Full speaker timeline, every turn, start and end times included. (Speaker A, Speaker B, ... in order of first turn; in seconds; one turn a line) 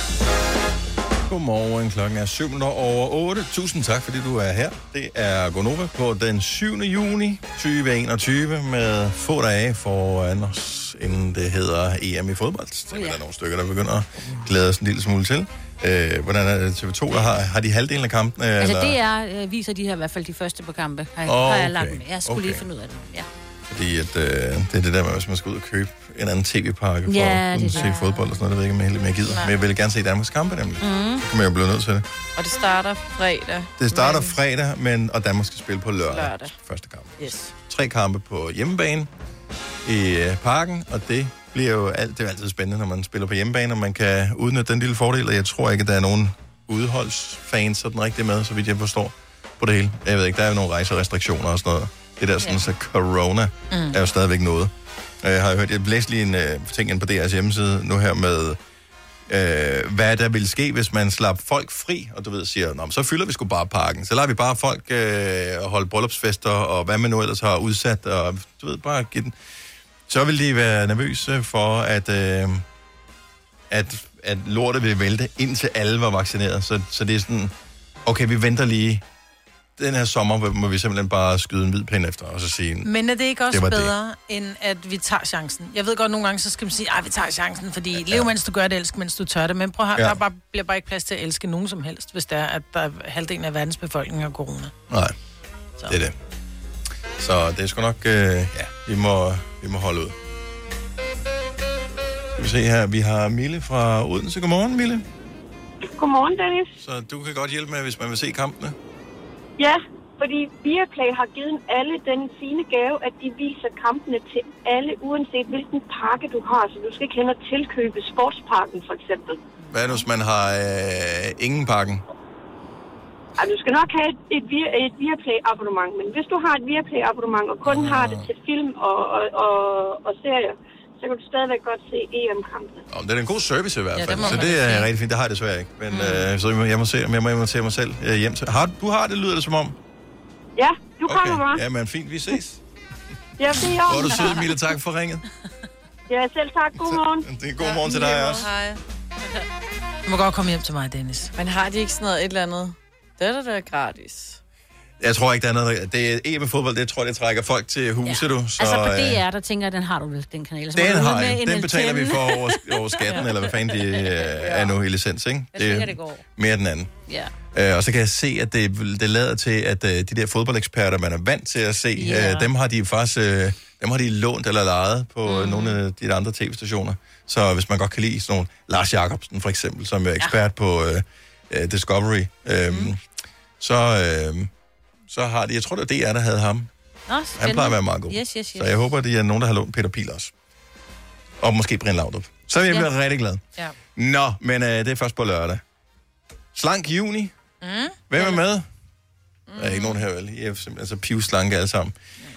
Speaker A: 1.3-19.0
Speaker B: 12.9-13.2
Speaker B: 18.6-23.3
Speaker A: 21.2-22.6
Speaker A: 23.7-32.0
Speaker B: 27.1-28.2
Speaker B: 30.8-31.2
Speaker C: 32.4-34.4
Speaker A: 33.8-39.1
Speaker C: 36.1-36.5
Speaker C: 37.2-37.5
Speaker A: 39.8-58.6
Speaker D: 53.7-54.0
Speaker A: 59.3-69.3
Speaker A: 70.1-72.6
Speaker A: 73.7-77.5
Speaker A: 78.0-79.0
Speaker A: 79.8-82.9
Speaker D: 82.8-94.7
Speaker A: 83.5-83.9
Speaker A: 87.9-88.3
Speaker A: 94.9-95.1
Speaker A: 95.9-96.1
Speaker A: 97.2-100.1
Speaker A: 102.3-105.0
Speaker E: 105.9-106.7
Speaker A: 106.8-108.8
Speaker E: 109.6-119.4
Speaker A: 119.7-122.0
Speaker E: 123.4-132.8
Speaker A: 127.6-128.3
Speaker A: 132.9-139.8
Speaker D: 133.9-134.9
Speaker B: 135.9-136.2
Speaker E: 140.6-141.6
Speaker A: 141.0-142.6
Speaker E: 143.4-144.4
Speaker A: 143.7-145.2
Speaker E: 146.1-147.2
Speaker A: 146.7-148.5
Speaker D: 147.8-148.5
Speaker C: 148.0-148.8
Speaker D: 150.1-151.3
Speaker C: 151.3-154.4
Speaker A: 155.0-159.2
Speaker B: 158.0-164.7
Speaker A: 160.7-166.9
Speaker B: 165.5-166.2
Speaker B: 167.1-167.3
Speaker A: 167.5-183.0
Speaker B: 171.9-172.5
Speaker B: 175.2-175.8
Speaker A: 183.6-184.5
Speaker A: 185.1-186.7
Speaker B: 187.1-188.7
Speaker A: 187.4-190.3
Speaker A: 191.4-193.4
Speaker A: 193.9-195.6
Speaker A: 196.5-197.3
Speaker D: 197.6-198.0
Speaker A: 198.1-198.7
Speaker C: 199.5-200.0
Speaker A: 199.6-201.9